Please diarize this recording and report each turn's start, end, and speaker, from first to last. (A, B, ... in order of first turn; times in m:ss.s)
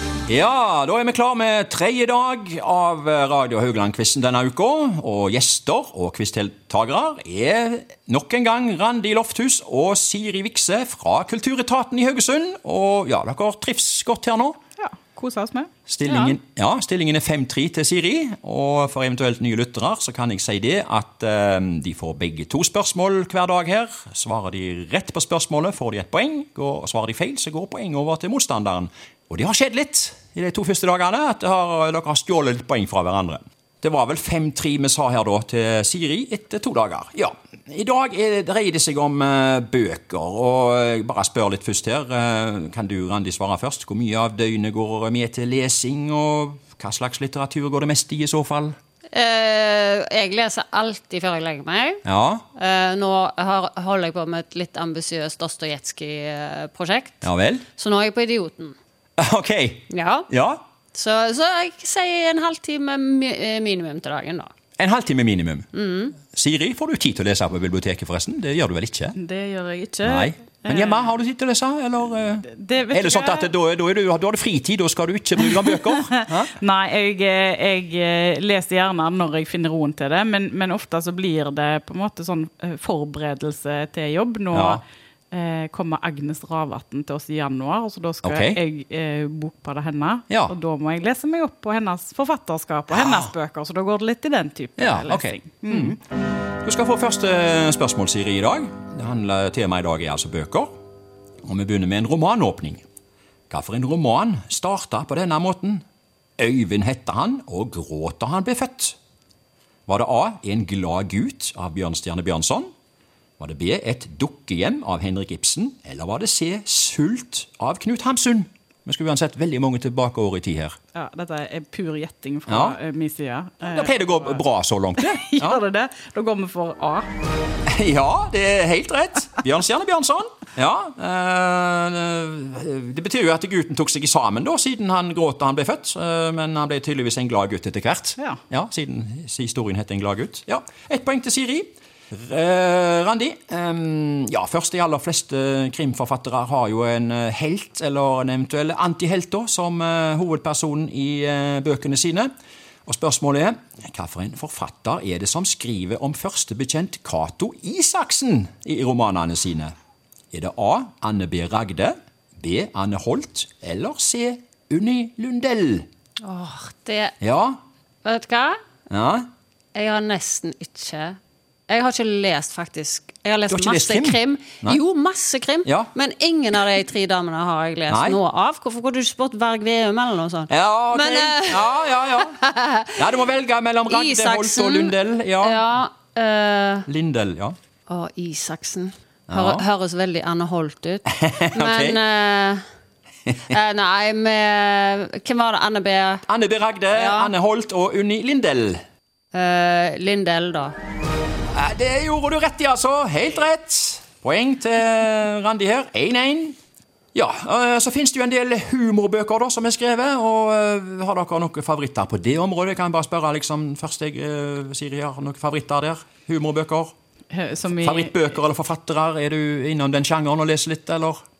0:00.3-0:14.6 A
0:14.8-0:15.7 B
0:15.9-0:48.8 A
0:16.0-0:16.4 C
0:49.1-0:52.0 C
0:52.0-0:52.4 A
0:52.6-0:58.8 C
0:57.2-0:57.7 A
0:59.2-1:00.6 A
0:59.9-1:00.3 C
1:00.9-1:04.5 C
1:04.8-1:09.2 A
1:05.7-1:06.2 C
1:09.1-1:11.1 B
1:10.0-1:16.6 A
1:12.5-1:13.5 B
1:16.0-1:36.0 B
1:24.5-1:24.8 A
1:28.2-1:28.6 A
1:32.9-1:33.3 A
1:34.8-1:36.0 A
1:36.6-1:40.7 A
1:41.4-1:42.8 A
1:43.5-1:45.8 A
1:46.4-1:49.0 A
1:49.9-1:52.7 A
1:53.4-2:00.8 A
2:00.9-2:04.4 B
2:02.5-2:02.8 A
2:03.6-2:05.6 A
2:05.0-2:07.1 B
2:07.6-2:32.3 A
2:32.8-2:39.7 A
2:40.3-2:45.8 A
2:46.2-2:47.2 C
2:47.2-2:47.6 A
2:48.0-2:48.6 C
2:48.9-2:49.2 A
2:49.7-2:51.2 C
2:51.7-3:03.0 C
2:53.5-2:54.8 A
2:55.6-2:55.9 A
2:57.9-2:58.2 A
3:00.5-3:02.4 A
3:02.9-3:05.7 A
3:03.9-3:06.9 C
3:06.9-3:07.5 A
3:07.9-3:12.6 C
3:09.3-3:09.7 A
3:11.1-3:12.0 A
3:13.5-3:16.2 C
3:16.3-3:18.8 A
3:16.9-3:17.3 C
3:19.3-3:20.7 C
3:21.5-3:26.6 A
3:27.1-3:36.9 A
3:37.3-3:38.2 B
3:37.7-3:41.2 A